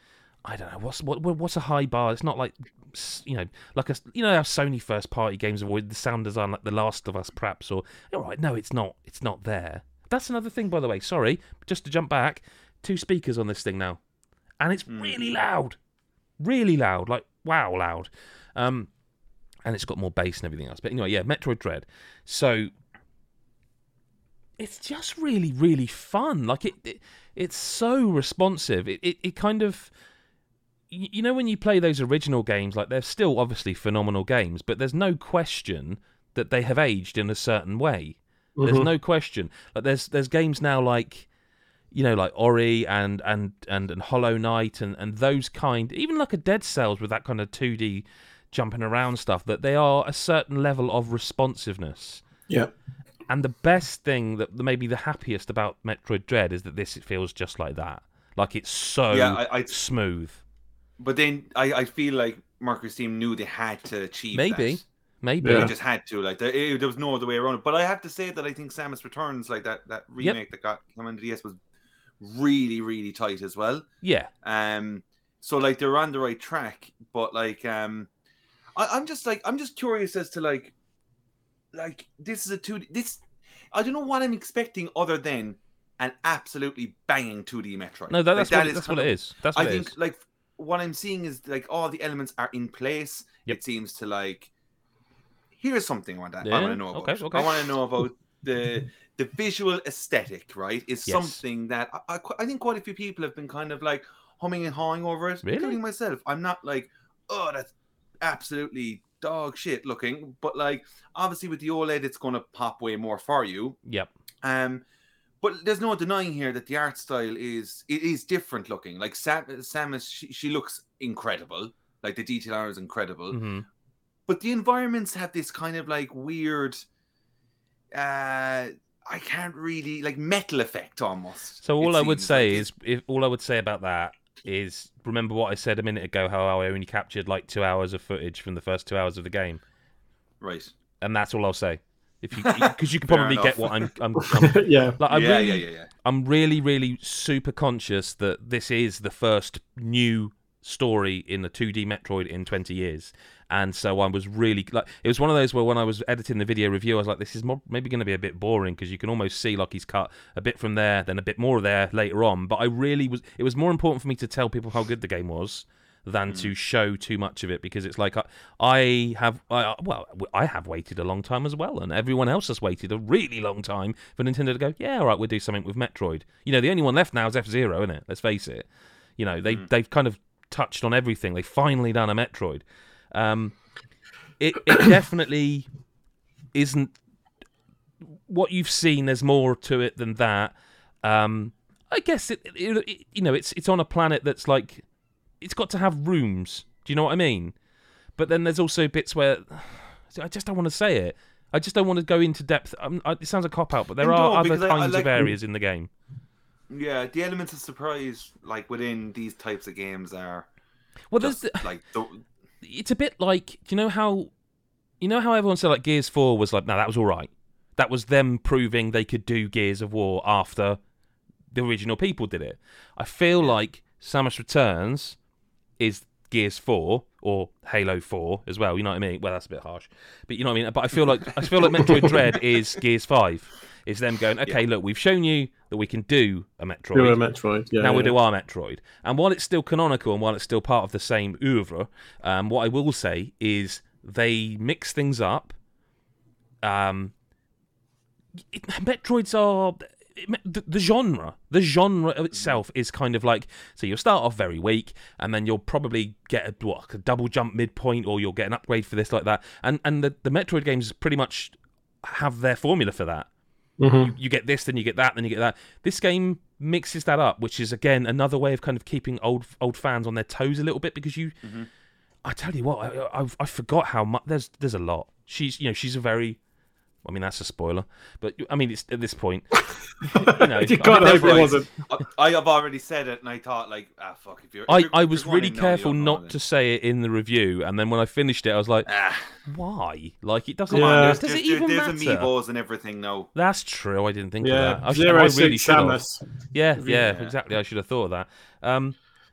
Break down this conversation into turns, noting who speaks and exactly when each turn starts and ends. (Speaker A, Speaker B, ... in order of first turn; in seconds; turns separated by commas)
Speaker A: 0.5-14.0, Speaker A: 14.6-15.8, Speaker B: 14.9-15.2, Speaker A: 16.4-18.9, Speaker A: 19.6-22.7, Speaker A: 24.6-29.9, Speaker A: 30.9-41.3, Speaker C: 38.6-38.9, Speaker A: 41.9-52.2, Speaker A: 53.3-60.4, Speaker B: 59.1-59.7, Speaker B: 61.0-64.8, Speaker A: 64.3-65.7, Speaker C: 65.4-65.7, Speaker B: 65.4-71.6, Speaker B: 72.2-73.9, Speaker A: 74.0-74.3, Speaker B: 74.4-78.1, Speaker B: 78.8-80.7, Speaker B: 81.7-94.5, Speaker A: 88.1-89.9, Speaker B: 95.6-113.8, Speaker A: 96.4-97.7, Speaker A: 101.1-101.4, Speaker A: 105.4-105.8, Speaker B: 114.4-114.8, Speaker B: 115.4-123.4, Speaker A: 123.3-123.7, Speaker B: 124.3-126.8, Speaker B: 127.9-132.7, Speaker A: 131.6-139.6, Speaker B: 140.4-140.7, Speaker A: 141.0-178.7, Speaker B: 142.4-143.9, Speaker C: 144.4-145.0, Speaker B: 145.1-145.9, Speaker A: 179.2-183.6, Speaker A: 184.4-185.7, Speaker A: 186.5-186.9, Speaker A: 188.0-194.9, Speaker A: 195.4-197.6, Speaker A: 198.2-205.9, Speaker B: 204.0-205.3, Speaker B: 206.7-210.5, Speaker A: 211.1-211.7, Speaker B: 211.2-212.2, Speaker A: 212.6-214.3, Speaker A: 215.0-220.8, Speaker A: 221.5-225.2, Speaker A: 225.8-237.2, Speaker C: 236.9-238.2, Speaker A: 237.8-245.6, Speaker A: 246.6-247.1, Speaker A: 248.5-263.3, Speaker C: 263.8-264.1, Speaker A: 264.0-271.4, Speaker B: 271.4-271.7, Speaker A: 272.2-276.4, Speaker A: 277.0-281.6, Speaker C: 280.0-281.7, Speaker B: 280.9-286.4, Speaker A: 284.7-288.9, Speaker B: 288.9-289.4, Speaker A: 289.5-292.3, Speaker B: 290.7-293.3, Speaker C: 290.7-291.2, Speaker A: 293.4-296.0, Speaker C: 294.4-296.2, Speaker A: 296.5-299.0, Speaker C: 296.8-297.1, Speaker B: 297.1-297.4